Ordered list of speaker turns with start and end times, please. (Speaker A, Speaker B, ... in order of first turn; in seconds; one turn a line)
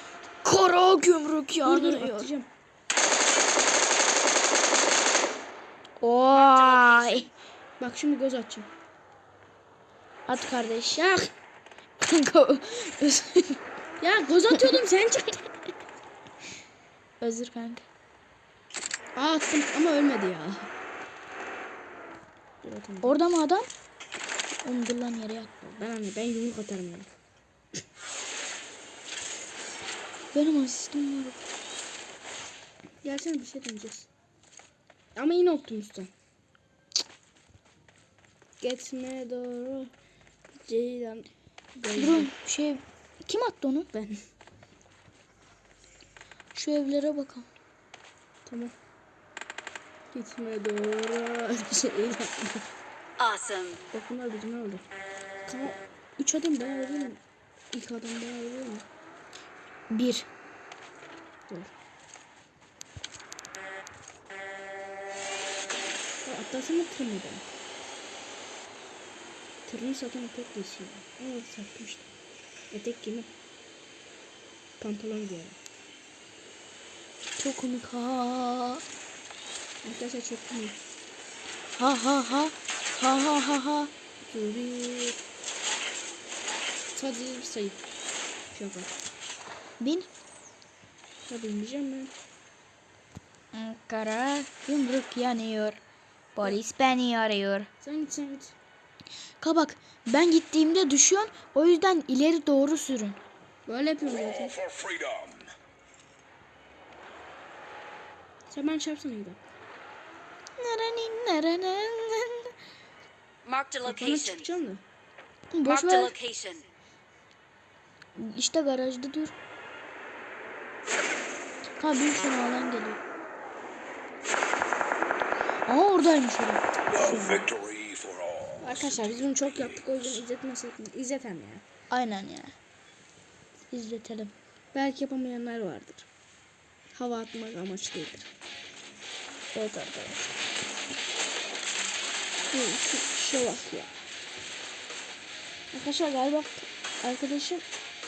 Speaker A: 0.4-2.3
Speaker B: 1.6-2.5
Speaker A: 6.0-7.3
Speaker B: 6.3-8.7
Speaker A: 10.3-11.0
Speaker B: 11.0-11.3
Speaker A: 12.0-13.6
Speaker B: 14.0-15.6
Speaker A: 17.2-17.9
Speaker B: 19.1-20.7
Speaker B: 22.6-23.2
Speaker A: 23.0-23.7
Speaker A: 24.6-25.5
Speaker B: 25.6-27.1
Speaker A: 30.3-31.4
Speaker B: 33.0-34.1
Speaker B: 35.1-36.1
Speaker B: 38.6-39.9
Speaker B: 40.6-42.3
Speaker A: 42.0-43.9
Speaker B: 43.9-44.2
Speaker A: 46.5-47.5
Speaker B: 48.5-48.7
Speaker B: 50.1-52.6
Speaker C: 53.2-53.8
Speaker B: 53.9-54.9
Speaker B: 55.5-57.2
Speaker B: 57.7-58.9
Speaker A: 59.9-60.3
Speaker B: 66.2-67.4
Speaker B: 69.7-72.1
Speaker B: 72.7-73.3
Speaker B: 74.8-75.6
Speaker A: 77.4-78.8
Speaker B: 79.8-80.8
Speaker A: 81.8-83.9
Speaker B: 84.3-85.2
Speaker B: 86.9-87.8
Speaker B: 88.5-88.9
Speaker A: 89.8-90.1
Speaker B: 91.3-92.1
Speaker A: 93.5-95.8
Speaker A: 96.4-97.7
Speaker B: 97.8-98.5
Speaker A: 99.4-103.2
Speaker B: 103.7-104.5
Speaker D: 104.2-105.5
Speaker B: 108.5-109.4
Speaker A: 110.6-112.5
Speaker C: 113.4-114.5
Speaker B: 113.8-114.8
Speaker A: 115.5-116.1
Speaker C: 115.7-116.7
Speaker A: 118.2-119.3
Speaker A: 121.8-123.0
Speaker A: 125.7-126.6
Speaker D: 126.9-129.0
Speaker B: 127.0-127.5
Speaker B: 128.6-131.7
Speaker D: 129.6-129.8
Speaker A: 131.9-132.5
Speaker A: 133.7-134.3
Speaker B: 134.7-136.1
Speaker B: 136.9-138.3
Speaker B: 139.5-140.4
Speaker B: 142.5-143.9
Speaker B: 145.7-147.7